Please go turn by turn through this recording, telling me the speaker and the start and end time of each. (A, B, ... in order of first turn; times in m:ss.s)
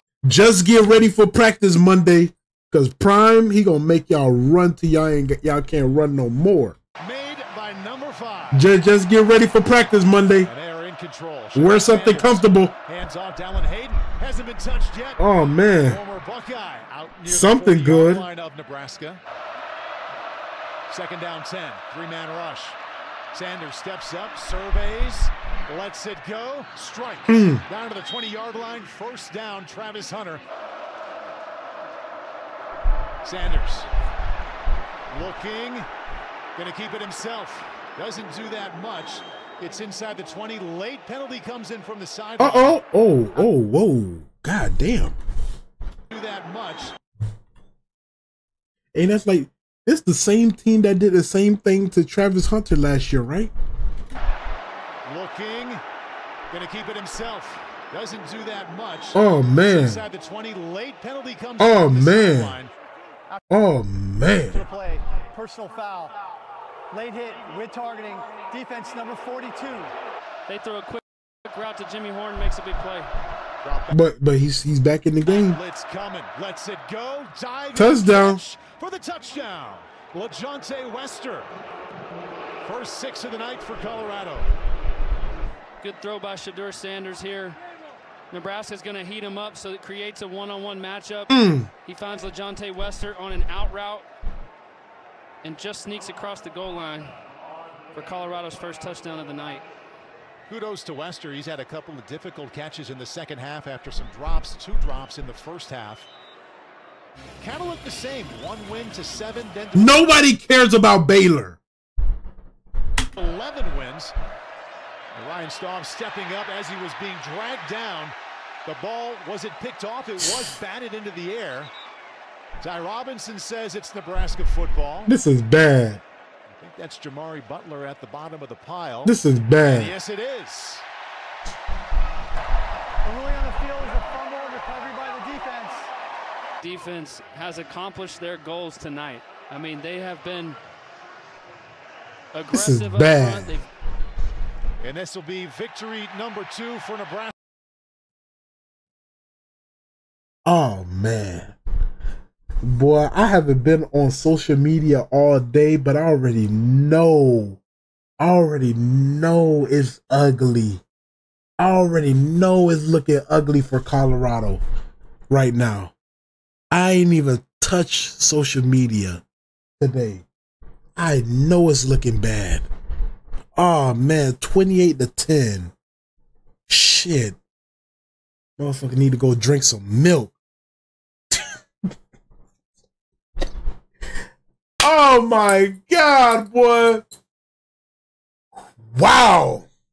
0:00.2-0:06.8 A
0:07.0-0:08.7 B
0:08.5-0:10.5 A
0:10.4-0:19.2 B
0:11.5-0:12.7 A
0:15.2-0:16.0 A
0:17.2-0:18.3 A
0:20.9-0:22.8 B
0:23.3-0:30.4 B
0:27.3-0:27.6 A
0:33.2-0:33.9 B
0:35.1-0:35.9 B
0:36.6-0:42.8 B
0:42.4-0:45.2 A
0:46.1-0:47.0 B
0:48.9-0:53.5 A
0:55.0-0:55.8 B
0:56.5-1:02.7 B
0:59.2-1:00.0 A
1:01.6-1:02.6 A
1:03.5-1:04.7 A
1:04.5-1:04.8 B
1:04.7-1:06.2 C
1:06.9-1:09.9 C
1:10.5-1:13.1 D
1:13.6-1:14.0 B
1:13.9-1:15.6 A
1:15.2-1:21.5 B
1:17.7-1:18.4 A
1:22.6-1:24.5 B
1:25.8-1:27.6 D
1:28.3-1:34.1 D
1:31.3-1:31.7 A
1:35.4-1:37.1 D
1:37.9-1:39.6 D
1:40.5-1:46.1 B
1:47.4-1:50.1 B
1:49.8-1:51.6 A
1:53.2-1:54.2 B
1:55.2-2:01.7 B
2:02.6-2:05.1 B
2:05.1-2:06.0 A
2:06.5-2:10.8 B
2:09.0-2:09.9 A
2:13.0-2:15.9 C
2:16.6-2:20.6 D
2:22.3-2:23.7 D
2:22.5-2:23.6 A
2:24.8-2:27.3 B
2:30.5-2:31.6 A
2:32.6-2:37.6 A
2:38.2-2:40.8 A
2:41.6-2:44.6 A
2:45.3-2:45.9 A
2:46.7-2:49.2 A
2:49.8-2:50.3 A
2:51.0-2:52.6 A
2:53.6-2:55.7 A
2:56.7-2:57.4 A
2:58.6-3:00.4 A
3:04.8-3:07.1 A
3:08.9-3:09.7 A